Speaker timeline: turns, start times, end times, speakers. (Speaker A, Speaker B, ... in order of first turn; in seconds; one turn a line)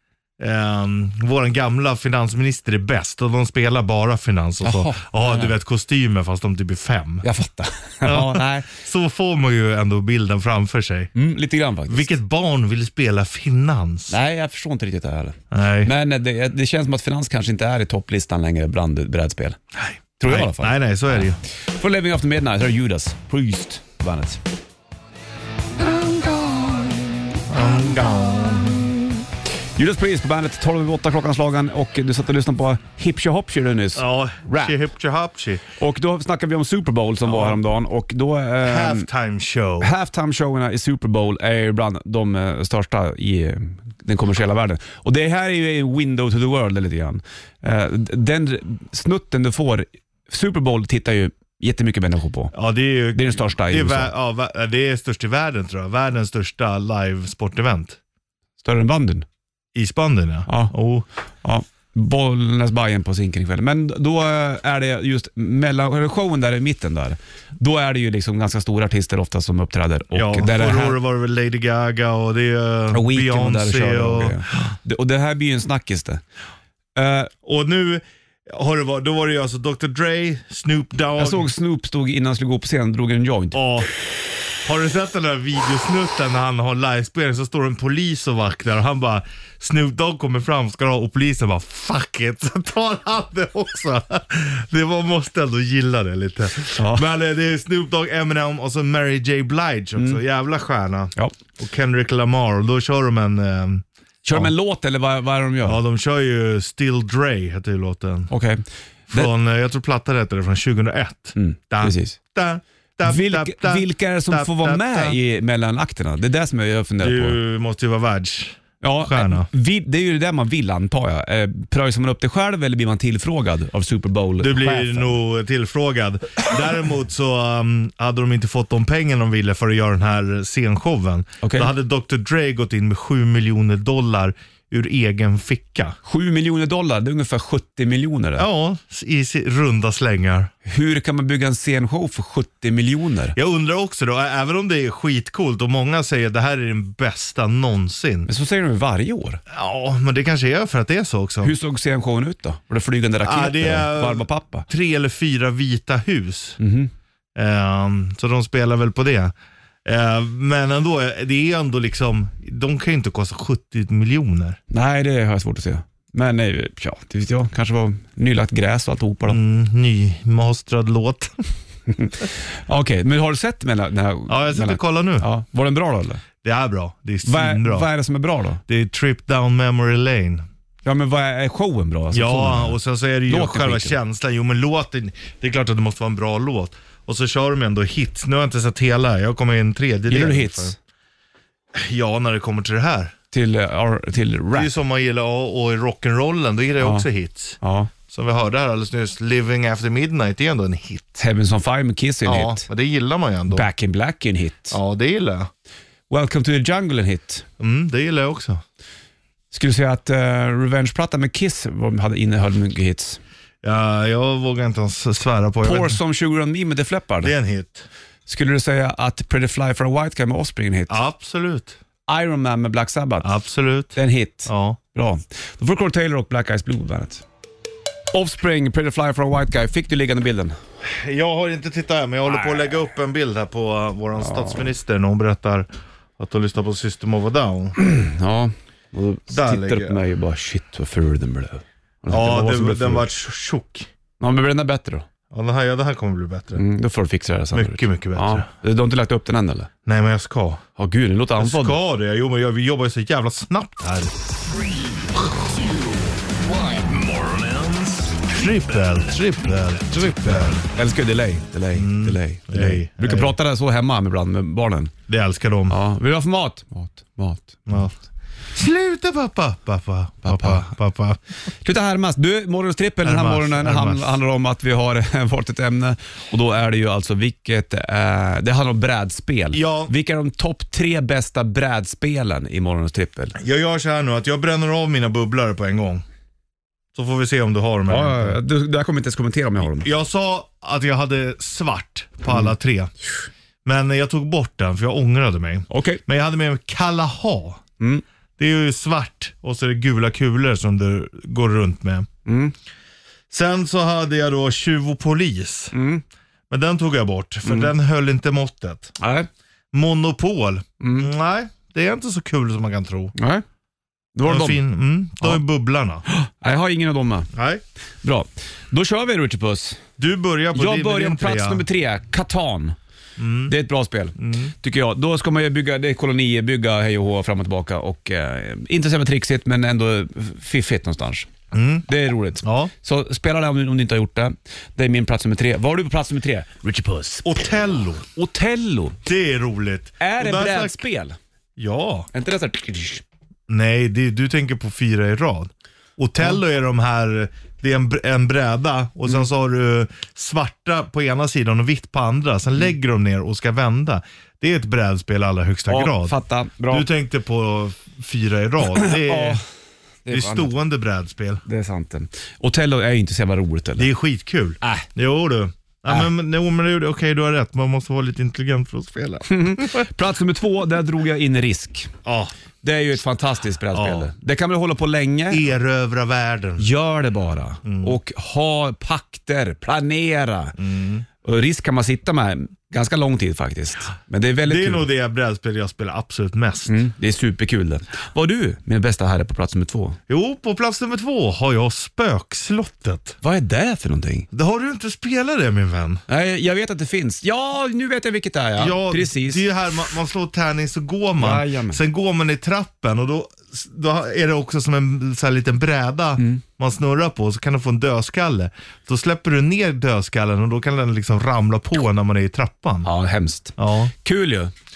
Speaker A: 0.4-7.2
Speaker B: 4.6-5.5
Speaker B: 7.2-8.7
Speaker A: 8.0-11.1
Speaker B: 11.2-12.1
Speaker A: 11.9-14.1
Speaker B: 14.1-19.6
Speaker A: 15.5-15.9
Speaker A: 19.8-21.4
Speaker B: 20.2-20.8
Speaker B: 21.8-24.4
Speaker B: 25.8-28.1
Speaker A: 27.5-28.9
Speaker B: 29.8-34.8
Speaker A: 34.0-35.6
Speaker B: 35.8-39.1
Speaker A: 37.2-37.6
Speaker A: 38.6-39.9
Speaker B: 39.8-52.5
Speaker A: 52.5-58.0
Speaker B: 53.1-54.1
Speaker B: 58.6-59.3
Speaker A: 59.8-61.1
Speaker B: 60.5-60.7
Speaker B: 61.4-71.0
Speaker A: 70.1-74.4
Speaker B: 72.9-76.2
Speaker B: 77.0-77.3
Speaker A: 77.4-81.5
Speaker B: 81.2-83.6
Speaker A: 83.5-83.9
Speaker A: 84.6-104.5
Speaker B: 96.8-97.0
Speaker B: 100.0-100.2
Speaker B: 104.2-105.8
Speaker A: 105.6-108.3
Speaker B: 108.3-109.3
Speaker A: 109.1-115.2
Speaker B: 111.4-112.2
Speaker B: 113.0-117.4
Speaker A: 117.0-119.5
Speaker B: 118.8-125.2
Speaker A: 124.4-136.0
Speaker B: 131.4-131.7
Speaker B: 136.0-138.5
Speaker A: 138.4-140.5
Speaker B: 140.7-143.3
Speaker A: 143.3-148.3
Speaker B: 148.3-149.4
Speaker A: 149.5-151.5
Speaker B: 151.4-154.7
Speaker A: 153.2-156.6
Speaker B: 156.6-156.9
Speaker A: 157.3-159.3
Speaker A: 159.8-164.6
Speaker B: 164.7-169.4
Speaker A: 169.3-171.5
Speaker B: 171.9-176.2
Speaker A: 174.3-175.3
Speaker A: 176.4-177.9
Speaker B: 177.2-178.6
Speaker A: 178.7-180.5
Speaker B: 180.8-184.0
Speaker A: 182.1-190.8
Speaker B: 190.1-190.8
Speaker A: 191.7-193.1
Speaker B: 193.3-194.7
Speaker A: 194.5-197.6
Speaker B: 196.8-197.1
Speaker B: 197.6-197.9
Speaker A: 198.1-201.2
Speaker B: 201.2-202.7
Speaker A: 202.2-203.7
Speaker B: 203.5-204.8
Speaker A: 204.7-205.5
Speaker B: 206.1-207.5
Speaker A: 207.6-208.6
Speaker B: 209.5-213.2
Speaker A: 213.6-216.0
Speaker B: 215.6-217.3
Speaker A: 217.2-217.9
Speaker B: 218.3-221.0
Speaker A: 220.9-221.8
Speaker B: 222.1-223.3
Speaker A: 223.2-224.8
Speaker B: 223.9-227.2
Speaker B: 228.1-230.6
Speaker A: 230.8-237.8
Speaker B: 234.2-234.6
Speaker B: 237.8-243.1
Speaker A: 239.3-240.0
Speaker A: 242.1-243.9
Speaker B: 244.2-245.1
Speaker A: 245.3-246.6
Speaker B: 246.6-249.7
Speaker A: 247.5-248.5
Speaker A: 249.9-250.6
Speaker B: 250.8-251.8
Speaker A: 251.4-254.1
Speaker C: 254.5-258.6
Speaker A: 258.3-260.7
Speaker B: 259.9-264.9
Speaker A: 261.8-263.4
Speaker A: 265.1-265.8
Speaker B: 265.7-267.9
Speaker A: 267.7-267.9
Speaker A: 268.5-271.2
Speaker B: 270.2-270.7
Speaker B: 271.6-283.4
Speaker A: 273.0-274.2
Speaker A: 279.5-279.9
Speaker A: 283.4-286.0
Speaker A: 286.9-288.4
Speaker B: 287.9-289.9
Speaker A: 289.6-292.9
Speaker A: 293.6-297.6
Speaker B: 295.7-296.0
Speaker A: 298.4-302.1
Speaker B: 302.3-302.5
Speaker A: 303.3-305.7
Speaker B: 305.7-306.0
Speaker A: 306.5-308.9
Speaker B: 307.5-307.7
Speaker B: 309.0-309.3
Speaker A: 309.7-313.1
Speaker B: 310.8-311.1
Speaker B: 313.1-313.4
Speaker B: 314.1-314.6
Speaker A: 314.3-316.1
Speaker B: 316.1-317.3
Speaker A: 317.3-317.6
Speaker B: 318.0-319.8
Speaker A: 320.0-321.7
Speaker B: 320.5-322.8
Speaker A: 323.2-323.5
Speaker B: 323.5-331.3
Speaker A: 324.2-324.5
Speaker A: 331.5-331.9
Speaker B: 331.9-337.3
Speaker A: 332.4-332.7
Speaker A: 337.2-338.1
Speaker B: 338.1-339.0
Speaker A: 339.1-340.8
Speaker B: 340.0-341.2
Speaker A: 341.6-342.1
Speaker B: 342.1-343.0
Speaker A: 343.5-356.1
Speaker B: 355.7-356.9
Speaker A: 356.7-359.4
Speaker B: 358.8-359.4
Speaker B: 360.1-360.5
Speaker A: 360.1-361.4
Speaker B: 361.5-363.9
Speaker A: 363.8-369.9
Speaker B: 364.6-364.9
Speaker B: 369.3-371.9
Speaker A: 372.1-372.3
Speaker B: 372.6-375.5
Speaker A: 373.7-374.1
Speaker A: 375.3-376.7
Speaker B: 376.6-380.6
Speaker A: 377.6-378.0
Speaker A: 380.6-381.1
Speaker B: 381.2-384.9
Speaker A: 384.4-386.8
Speaker B: 386.7-390.0
Speaker A: 390.1-393.2
Speaker B: 393.2-394.3
Speaker A: 394.3-396.0
Speaker B: 396.1-399.4
Speaker A: 398.6-412.9
Speaker B: 401.2-401.8
Speaker B: 412.8-414.5
Speaker A: 413.6-413.9